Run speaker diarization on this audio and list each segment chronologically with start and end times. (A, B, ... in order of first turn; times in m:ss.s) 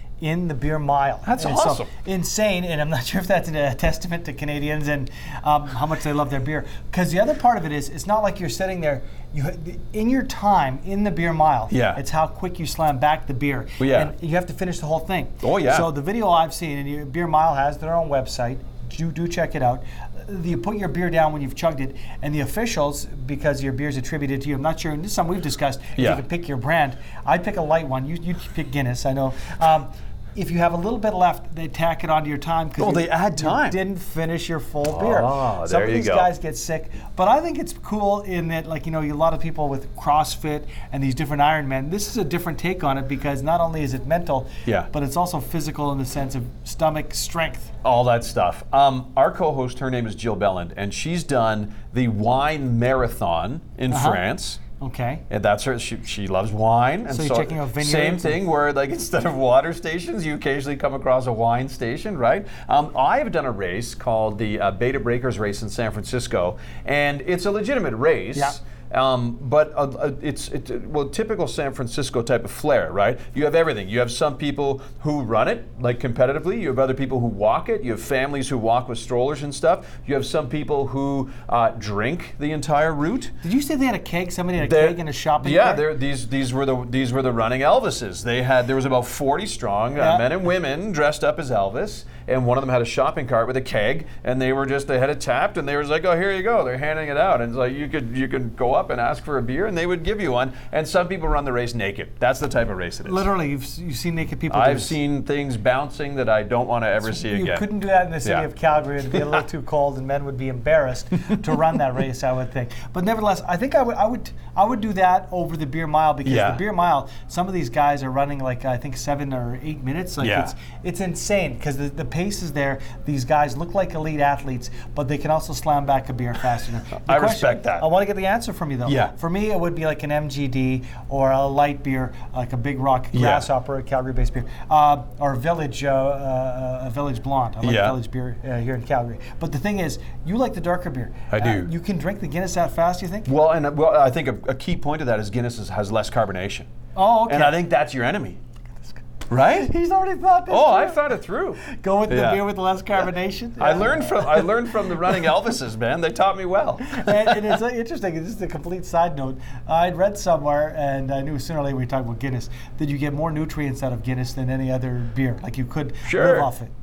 0:00.2-0:47.7 A
0:01.2-0:01.9 B
0:11.7-0:12.0 B
0:13.8-0:14.1 B
0:15.4-0:15.9 B
0:26.0-0:26.2 B
0:32.8-0:33.8 B
0:34.9-0:36.3 B
0:47.8-0:54.6 B
0:53.9-0:54.2 A
0:54.8-0:55.2 A
0:55.3-1:23.3 B
0:57.1-0:58.4 A
1:23.4-1:25.8 A
1:24.6-1:43.2 B
1:30.0-1:30.3 A
1:43.0-1:44.9 A
1:44.5-1:47.6 B
1:47.0-2:23.3 A
1:56.2-1:56.6 B
2:00.2-2:00.5 B
2:07.0-2:07.8 B
2:08.8-2:09.1 B
2:13.1-2:13.4 B
2:17.6-2:18.0 B
2:21.3-2:21.7 B
2:23.2-2:26.7 B
2:26.9-2:27.6 A
2:27.2-2:28.4 B
2:29.3-2:29.8 B
2:29.5-2:35.2 A
2:30.4-2:32.4 B
2:33.6-2:37.5 B
2:36.9-2:46.7 A
2:46.0-2:46.5 B